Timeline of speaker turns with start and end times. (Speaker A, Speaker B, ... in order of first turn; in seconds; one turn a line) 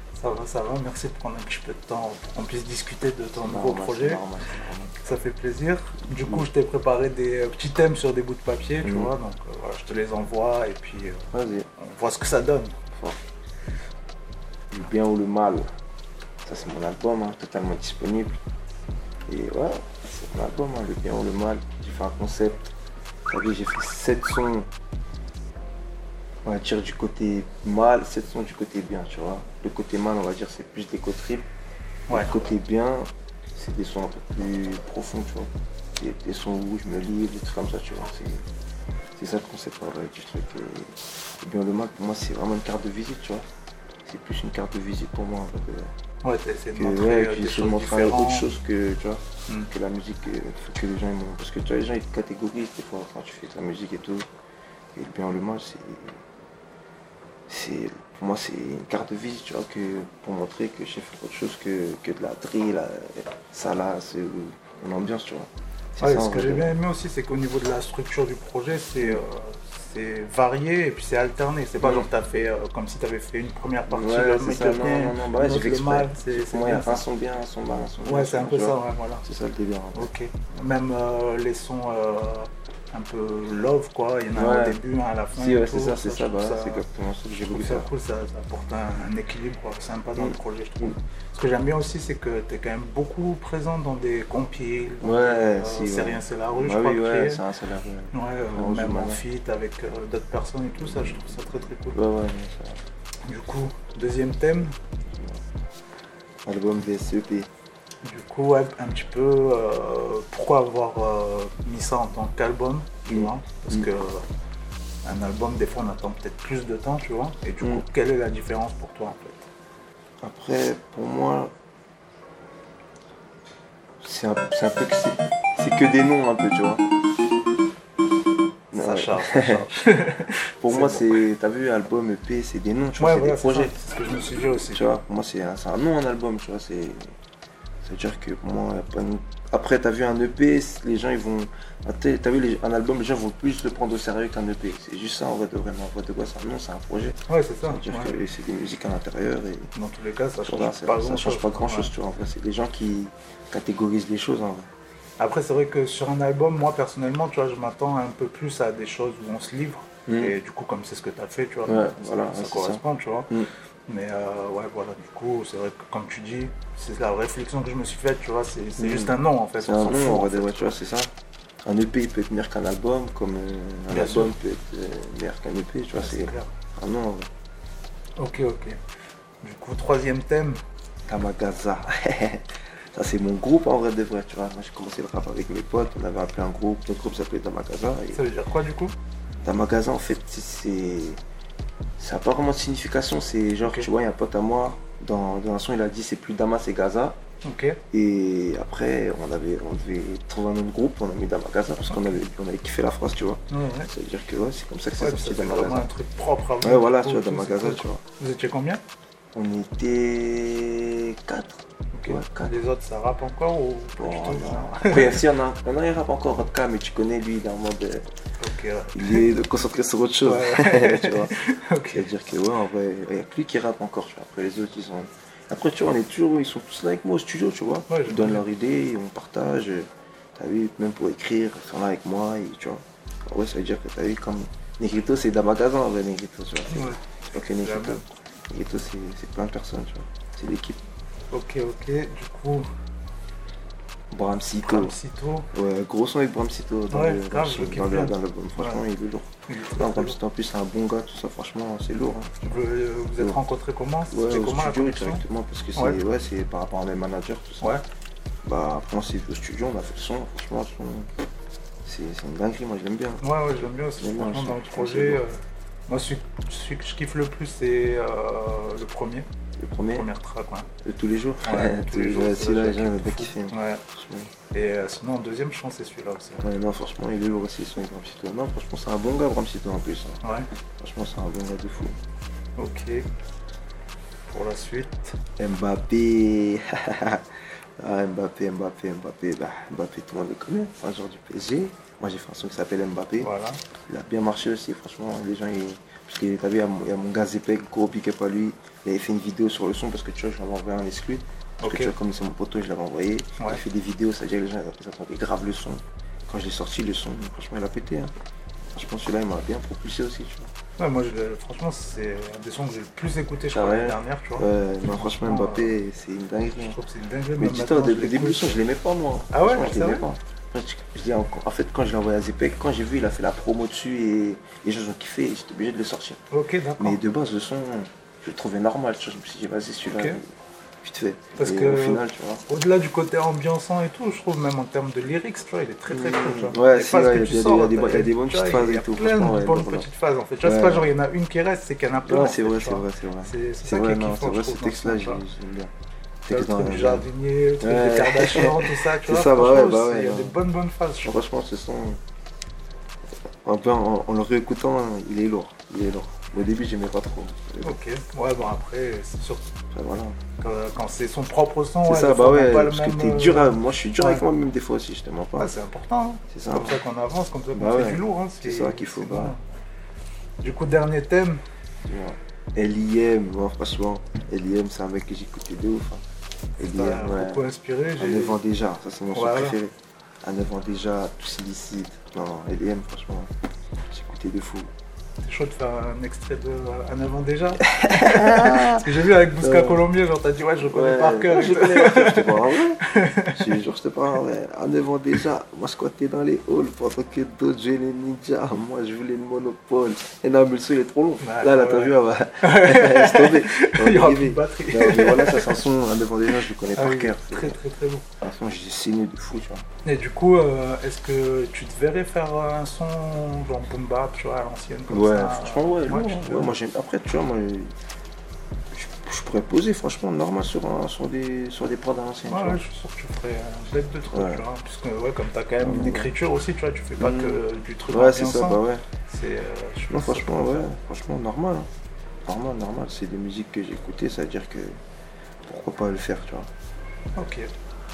Speaker A: 0.1-4.2
Speaker B: 3.4-5.0
Speaker A: 5.0-11.2
Speaker B: 6.1-6.5
Speaker B: 8.8-9.1
Speaker B: 11.3-11.7
Speaker A: 11.8-12.8
Speaker B: 12.9-13.2
Speaker B: 14.7-15.6
Speaker B: 16.4-18.4
Speaker B: 19.3-22.7
Speaker B: 23.3-24.7
Speaker B: 26.4-31.5
Speaker B: 32.1-38.5
Speaker B: 39.1-43.5
Speaker B: 44.0-45.9
Speaker A: 46.2-48.5
Speaker B: 46.7-54.3
Speaker B: 54.9-56.2
Speaker B: 57.5-66.7
Speaker A: 66.0-77.0
Speaker B: 71.8-72.1
Speaker B: 73.9-80.1
Speaker A: 78.0-79.2
Speaker A: 79.9-86.8
Speaker B: 84.3-84.8
Speaker B: 85.3-87.9
Speaker A: 87.5-97.4
Speaker B: 90.2-90.9
Speaker B: 95.0-99.2
Speaker A: 98.1-102.0
Speaker B: 100.8-102.8
Speaker A: 103.2-104.7
Speaker B: 105.0-105.4
Speaker B: 106.5-107.5
Speaker A: 108.0-114.2
Speaker B: 113.1-113.9
Speaker A: 115.0-119.5
Speaker B: 120.2-121.5
Speaker B: 124.0-126.8
Speaker B: 128.7-129.7
Speaker A: 128.7-131.2
Speaker B: 130.6-133.7
Speaker A: 133.0-135.0
Speaker B: 134.6-137.1
Speaker B: 137.8-149.7
Speaker A: 147.3-148.1
Speaker A: 149.7-151.9
Speaker B: 150.4-154.7
Speaker A: 155.2-163.3
Speaker B: 160.1-160.3
Speaker B: 161.7-163.5
Speaker A: 163.9-170.7
Speaker B: 168.8-171.1
Speaker B: 171.6-177.3
Speaker A: 173.9-174.3
Speaker A: 176.0-176.5
Speaker A: 178.2-178.8
Speaker A: 179.4-180.6
Speaker B: 181.1-188.2
Speaker A: 188.1-188.9
Speaker B: 189.4-191.2
Speaker B: 192.0-197.2
Speaker A: 197.4-197.8
Speaker B: 197.9-205.9
Speaker A: 203.5-203.9
Speaker A: 205.0-208.8
Speaker B: 206.6-208.0
Speaker B: 209.3-212.6
Speaker A: 211.9-215.2
Speaker B: 214.0-218.1
Speaker A: 218.4-219.3
Speaker B: 218.9-221.3
Speaker A: 220.2-222.1
Speaker B: 221.9-240.8
Speaker A: 227.9-228.4
Speaker A: 236.7-237.0
Speaker A: 237.6-238.1
Speaker A: 241.3-242.7
Speaker B: 244.1-244.9
Speaker A: 244.6-245.5
Speaker B: 245.5-252.3
Speaker A: 246.9-248.8
Speaker A: 249.5-250.2
Speaker A: 252.4-255.2
Speaker B: 254.1-257.8
Speaker B: 258.4-261.1
Speaker B: 261.8-263.2
Speaker A: 263.2-269.3
Speaker B: 264.0-265.2
Speaker B: 269.6-270.1
Speaker A: 269.9-270.7
Speaker B: 270.8-274.3
Speaker A: 271.4-273.8
Speaker A: 274.5-276.4
Speaker B: 276.4-280.2
Speaker B: 280.8-281.9
Speaker A: 282.6-283.0
Speaker A: 284.3-285.2
Speaker B: 285.4-293.3
Speaker A: 293.2-293.6
Speaker B: 293.9-308.1
Speaker A: 301.6-301.9
Speaker B: 308.7-310.5
Speaker A: 310.8-315.7
Speaker B: 313.5-316.8
Speaker A: 316.6-318.6
Speaker B: 317.4-326.2
Speaker A: 319.3-320.1
Speaker A: 326.3-327.0
Speaker B: 326.8-330.2
Speaker A: 329.9-330.2
Speaker B: 330.8-332.4
Speaker A: 331.4-345.2
Speaker B: 335.9-339.9
Speaker B: 340.4-340.9
Speaker B: 342.0-345.7
Speaker B: 346.2-347.1
Speaker A: 346.3-351.2
Speaker B: 347.6-350.4
Speaker B: 351.0-352.0
Speaker B: 353.4-357.7
Speaker A: 357.6-359.5
Speaker B: 359.7-360.2
Speaker A: 360.4-364.2
Speaker B: 361.9-365.5
Speaker A: 365.4-369.4
Speaker B: 366.3-366.8
Speaker B: 367.5-369.3
Speaker A: 370.4-371.4
Speaker B: 371.8-376.0
Speaker A: 376.6-378.4
Speaker B: 376.6-383.3
Speaker A: 379.1-379.6
Speaker B: 383.9-384.7
Speaker A: 385.2-393.4
Speaker B: 387.7-389.8
Speaker B: 390.6-407.6
Speaker A: 401.2-405.6
Speaker A: 406.7-408.1
Speaker B: 408.2-409.6
Speaker A: 409.8-416.5
Speaker B: 414.9-417.7
Speaker B: 418.7-422.6
Speaker A: 422.3-430.6
Speaker B: 424.0-424.4
Speaker B: 425.6-426.1
Speaker B: 427.0-428.8
Speaker B: 429.9-431.7
Speaker B: 432.2-434.8
Speaker B: 435.4-436.5
Speaker A: 437.1-437.5